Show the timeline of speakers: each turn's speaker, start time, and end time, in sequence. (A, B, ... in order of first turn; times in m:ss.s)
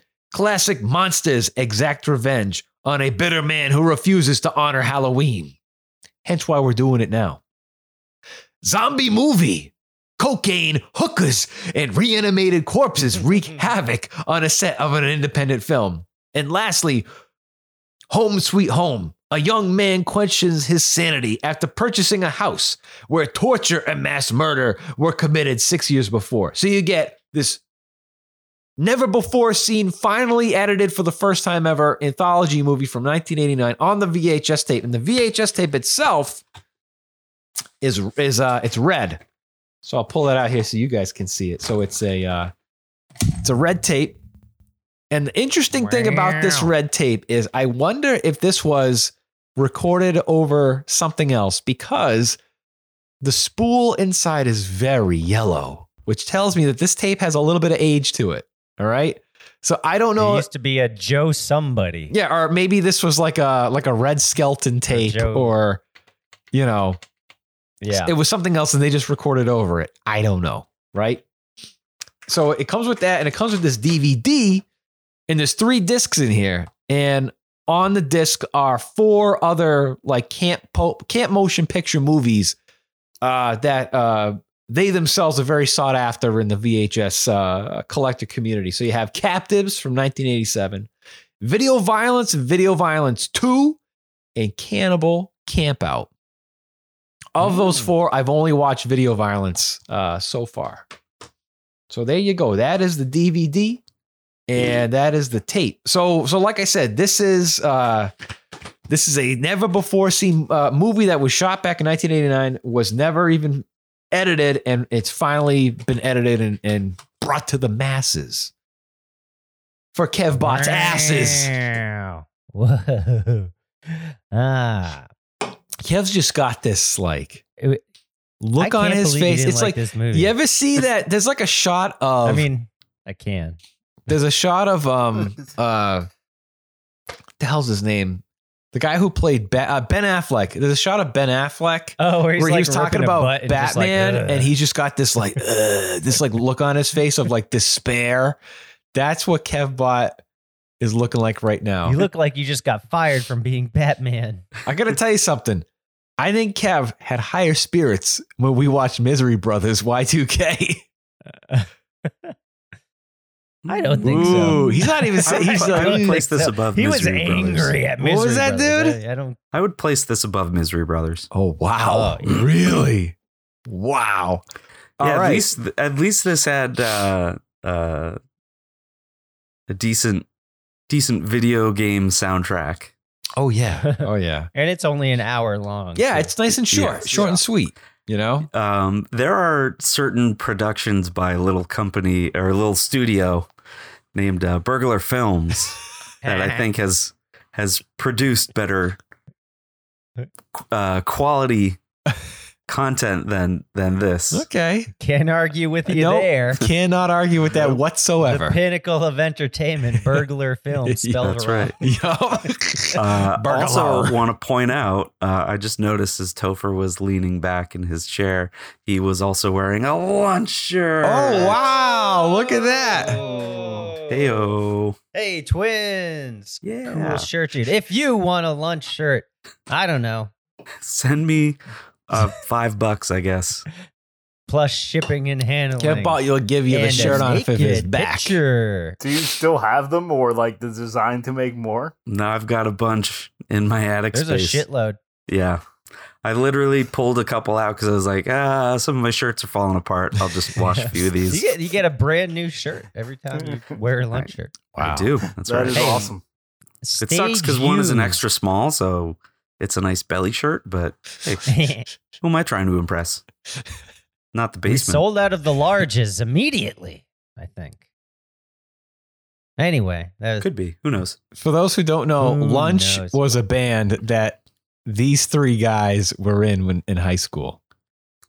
0:00.3-0:05.6 A
0:06.2-0:07.4 A
0:08.6-0:17.1 A
0:18.1-0:27.6 A
0:28.8-0:36.4 A
0:37.8-0:39.2 A
0:39.8-0:42.5 A
0:43.4-0:44.2 A
0:45.1-0:52.4 A
0:45.7-0:46.7 B
0:53.2-1:00.5 A
1:00.2-1:02.1 B
1:02.1-1:05.8 A
1:04.9-1:05.5 B
1:06.5-1:07.0 A
1:07.8-1:08.1 B
1:07.9-1:11.2 A
1:12.3-1:14.6 A
1:15.3-1:22.6 A
1:23.2-1:30.9 A
1:31.4-1:33.8 A
1:34.4-1:36.1 A
1:37.4-1:40.9 A
1:41.9-1:43.8 A
1:44.5-1:48.1 A
1:48.9-1:58.5 A
1:59.9-2:01.5 A
2:00.4-2:05.1 B
2:05.8-2:07.4 A
2:08.4-2:12.5 A
2:08.6-2:10.4 B
2:12.2-2:13.6 B
2:14.1-2:16.1 A
2:17.4-2:18.2 A
2:18.7-2:28.4 A
2:22.0-2:24.5 B
2:28.9-2:30.2 A
2:30.8-2:32.1 A
2:31.8-2:34.5 B
2:34.7-2:35.7 A
2:36.2-2:40.8 A
2:41.5-2:42.3 B
2:43.6-2:44.6 C
2:43.7-2:49.4 B
2:44.0-2:46.2 A
2:45.3-2:47.8 C
2:48.0-2:49.0 A
2:49.5-2:51.3 C
2:51.3-2:53.2 A
2:51.8-2:52.4 B
2:53.7-2:54.4 A
2:55.0-2:55.5 A
2:55.0-2:58.2 C
2:59.7-3:00.3 C
3:00.9-3:02.9 C
3:03.4-3:04.5 A
3:03.9-3:06.3 B
3:06.0-3:08.5 A
3:06.7-3:07.4 C
3:08.5-3:13.5 C
3:14.1-3:19.0 C
3:16.2-3:16.6 B
3:16.3-3:16.6 A
3:20.7-3:21.8 C
3:22.7-3:24.5 C
3:24.3-3:24.9 A
3:25.0-3:26.6 B
3:25.9-3:28.6 A
3:28.2-3:31.8 B
3:30.8-3:34.2 A
3:31.2-3:31.8 C
3:33.0-3:41.6 C
3:41.0-3:43.2 A
3:41.4-3:44.5 B
3:43.3-3:43.9 D
3:44.1-3:45.0 C
3:45.1-3:50.3 B
3:46.6-3:47.3 C
3:50.8-3:53.7 C
3:54.5-3:59.0 B
3:55.8-3:58.4 A
3:59.0-4:01.9 D
4:02.1-4:04.6 C
4:04.1-4:05.0 B
4:05.3-4:05.6 C
4:06.2-4:11.5 C
4:10.8-4:14.6 B
4:14.1-4:16.1 C
4:14.8-4:15.1 A
4:15.4-4:16.2 D
4:15.7-4:16.0 B
4:16.8-4:18.2 B
4:17.0-4:23.2 C
4:21.5-4:21.9 B
4:24.3-4:25.0 C
4:24.7-4:27.8 B
4:29.6-4:30.5 B
4:30.4-4:31.2 C
4:31.4-4:37.6 A
4:32.2-4:33.4 B